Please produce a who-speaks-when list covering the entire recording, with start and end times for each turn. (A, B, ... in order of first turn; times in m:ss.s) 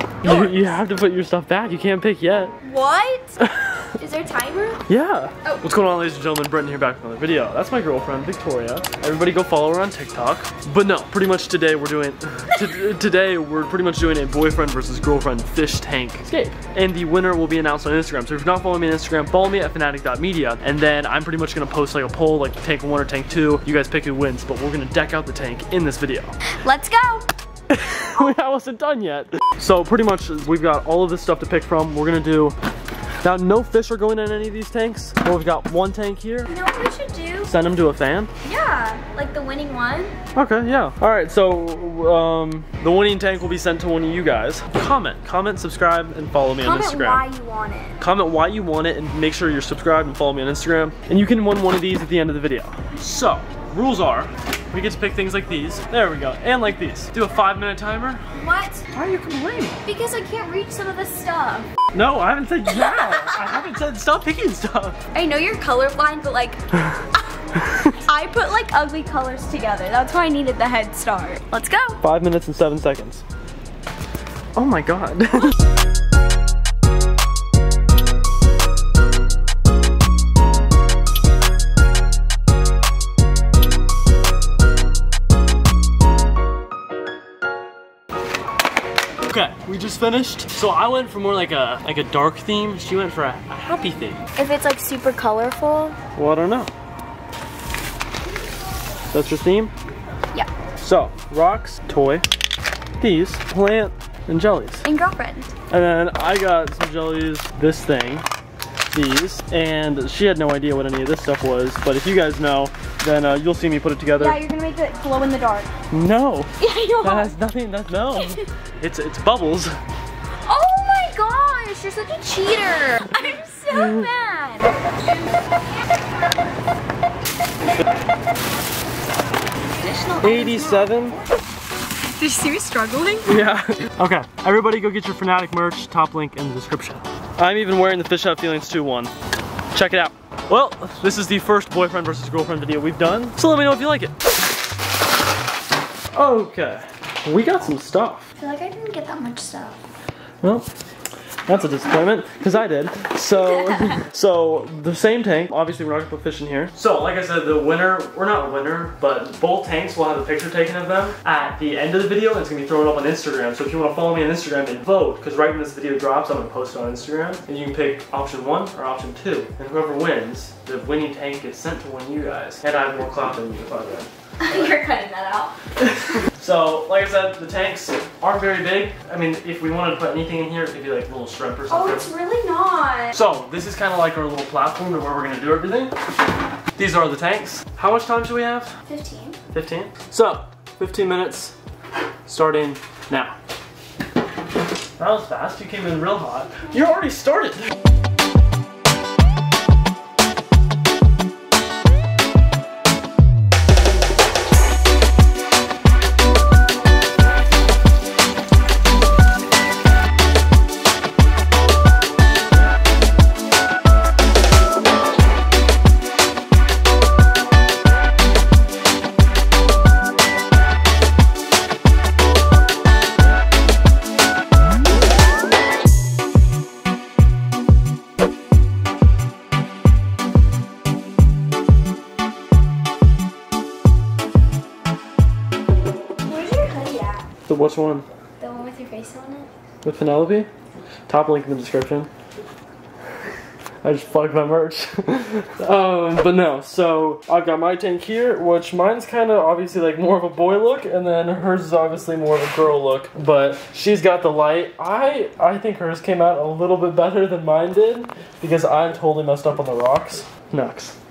0:00.2-0:00.8 A
0:00.2-0:02.5 B
0:02.6-0:03.4 A
0:04.0-0:04.8 A
0:04.9-0:26.3 B
0:26.6-0:27.3 A
0:27.7-0:32.6 B
0:33.2-0:36.5 B
0:36.4-0:37.5 A
0:37.4-0:38.3 B
0:38.4-0:40.1 A
0:40.3-0:47.2 B
0:46.6-0:48.0 A
0:48.0-0:58.2 B
0:58.3-0:58.8 A
0:58.9-0:59.8 B
0:59.8-1:01.7 A
1:01.9-1:05.0 B
1:02.9-1:03.3 A
1:05.1-1:06.6 A
1:07.6-1:07.9 B
1:07.9-1:12.0 A
1:12.0-1:13.2 B
1:14.5-1:15.6 B
1:29.2-1:34.2 B
1:34.4-1:36.0 A
1:36.2-1:36.7 B
1:39.1-1:39.7 B
1:40.8-1:42.2 B
1:43.0-1:44.8 B
1:44.8-1:45.5 A
1:45.7-1:48.2 B
1:48.9-1:54.4 B
1:54.2-1:55.7 A
1:55.9-1:56.5 B
1:56.6-1:57.4 A
1:57.0-1:59.8 B
1:58.2-1:58.4 A
2:00.4-2:04.8 A
2:03.7-2:04.1 B
2:09.8-2:11.2 A
2:10.2-2:11.2 B
2:12.2-2:13.4 A
2:13.2-2:19.1 B
2:19.7-2:24.1 B
2:26.1-2:28.3 B
2:28.4-2:29.8 A
2:30.4-2:30.7 B
2:31.5-2:54.7 B
2:54.4-2:55.5 A
2:55.8-3:02.1 B
3:01.7-3:03.2 A
3:03.1-3:05.9 B
3:06.8-3:08.8 B
3:08.8-3:09.4 A
3:09.5-3:11.6 B
3:12.2-3:13.3 B
3:15.0-3:17.6 B
3:56.2-3:57.2 A
3:57.5-3:58.1 B
3:58.4-3:59.5 A
3:59.8-4:00.5 B
4:01.1-4:02.1 B
4:03.8-4:21.0 B